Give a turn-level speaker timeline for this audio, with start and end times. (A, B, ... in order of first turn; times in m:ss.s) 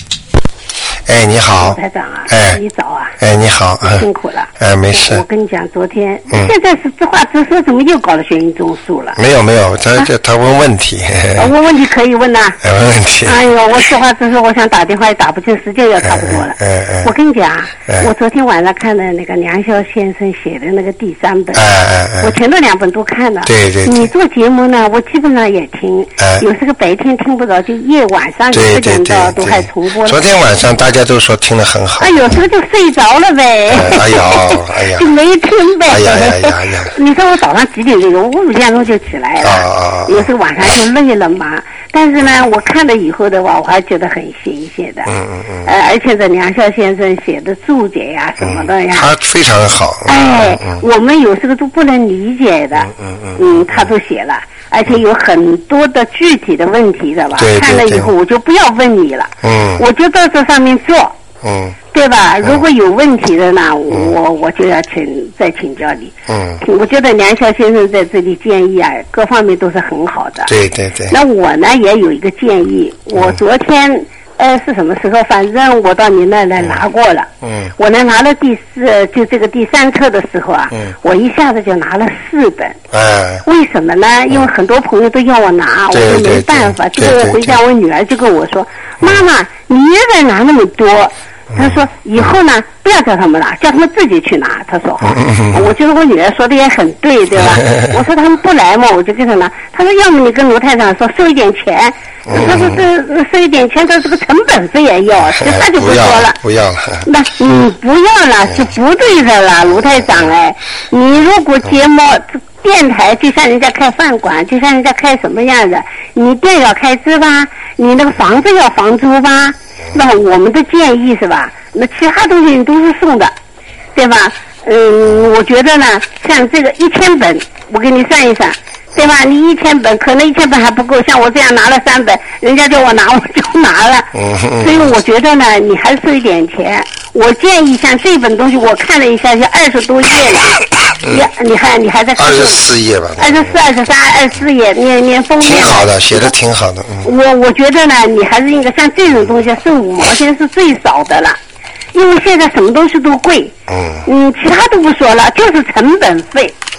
0:01.0-0:02.6 A
0:01.6-0:03.1 B
0:03.2-0:04.1 A
0:03.9-0:09.2 B
0:04.6-0:05.2 A
0:09.1-0:11.5 A
0:11.4-0:12.6 B
0:12.6-0:13.4 A
0:13.2-0:21.6 B
0:16.0-0:17.1 A
0:21.5-0:22.4 A
0:22.2-0:30.2 B
0:23.4-0:24.1 A
0:26.2-0:26.4 A
0:28.5-0:32.4 A
0:32.0-0:45.1 B
0:33.7-0:35.1 A
0:35.9-0:36.9 A
0:39.4-0:40.7 A
0:45.1-0:45.7 A
0:45.6-0:49.0 B
0:48.4-0:50.8 A
0:50.1-1:01.1 B
0:52.8-0:53.9 A
0:57.3-0:58.1 A
0:59.4-0:59.8 A
1:01.4-1:01.8 A
1:01.9-1:10.5 B
1:06.3-1:06.6 A
1:10.4-1:11.2 A
1:11.1-1:22.8 B
1:17.4-1:17.7 A
1:22.9-1:23.4 A
1:23.4-1:46.4 B
1:25.9-1:27.6 A
1:31.5-1:31.8 A
1:35.0-1:35.7 A
1:37.4-1:37.8 A
1:42.3-1:42.8 A
1:45.4-1:47.1 A
1:47.0-2:03.3 B
2:03.9-2:22.6 B
2:14.1-2:14.9 A
2:21.0-2:21.3 A
2:22.2-2:23.6 A
2:23.2-2:26.3 B
2:25.4-2:27.1 A
2:27.0-2:31.4 B
2:31.9-2:33.5 B
2:33.7-2:34.0 A
2:34.0-2:36.5 B